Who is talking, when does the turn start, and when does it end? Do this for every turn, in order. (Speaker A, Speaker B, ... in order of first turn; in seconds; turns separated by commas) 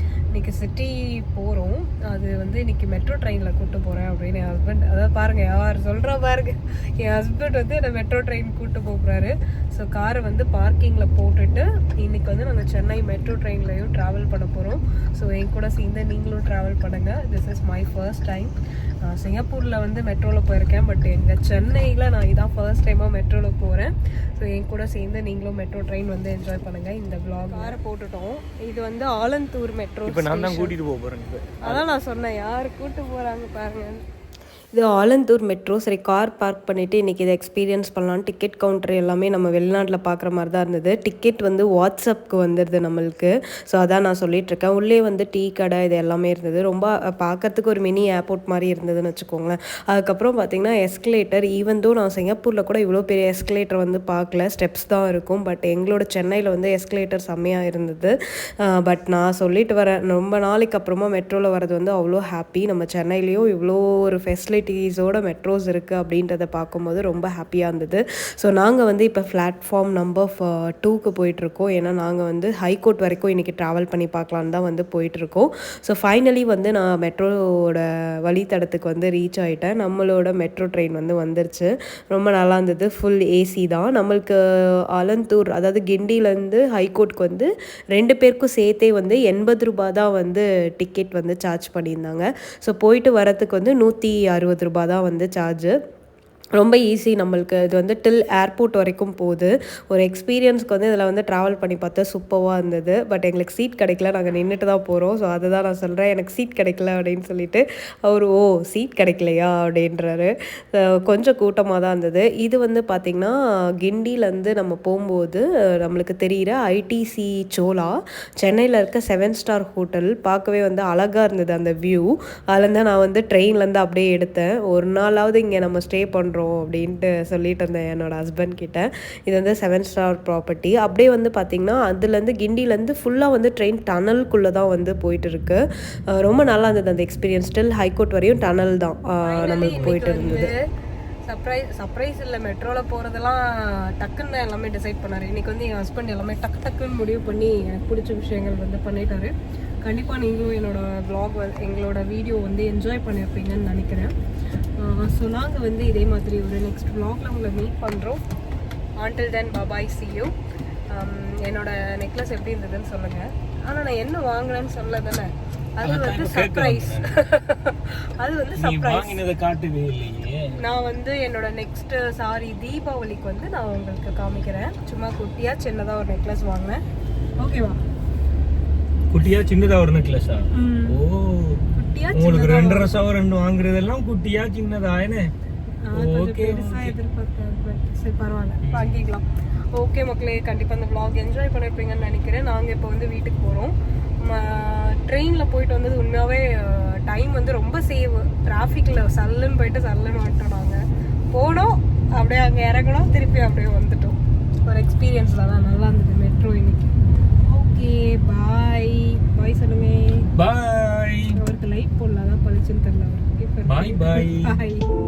Speaker A: 0.3-30.7, Speaker B: 30.1-31.8, Speaker A: 31.6-34.0, Speaker C: 34.7-58.1, Speaker C: 58.8-84.3, Speaker C: 85.0-87.5, Speaker C: 88.0-95.7, Speaker C: 96.6-110.3, Speaker A: 106.4-106.7, Speaker C: 111.1-117.9, Speaker C: 118.5-135.6, Speaker C: 136.1-140.5, Speaker A: 139.2-140.5, Speaker A: 141.3-154.1, Speaker A: 154.8-158.2, Speaker A: 159.0-160.3, Speaker A: 160.9-169.2, Speaker B: 165.8-167.2, Speaker B: 168.6-170.5, Speaker A: 170.6-176.8, Speaker A: 177.4-177.8, Speaker B: 179.1-185.3, Speaker A: 180.5-181.0, Speaker A: 181.8-182.9, Speaker A: 185.8-200.8, Speaker B: 185.9-186.9, Speaker B: 188.6-189.0, Speaker A: 201.3-206.9, Speaker A: 207.4-210.3, Speaker B: 210.3-211.4, Speaker A: 211.3-214.9, Speaker B: 213.7-214.5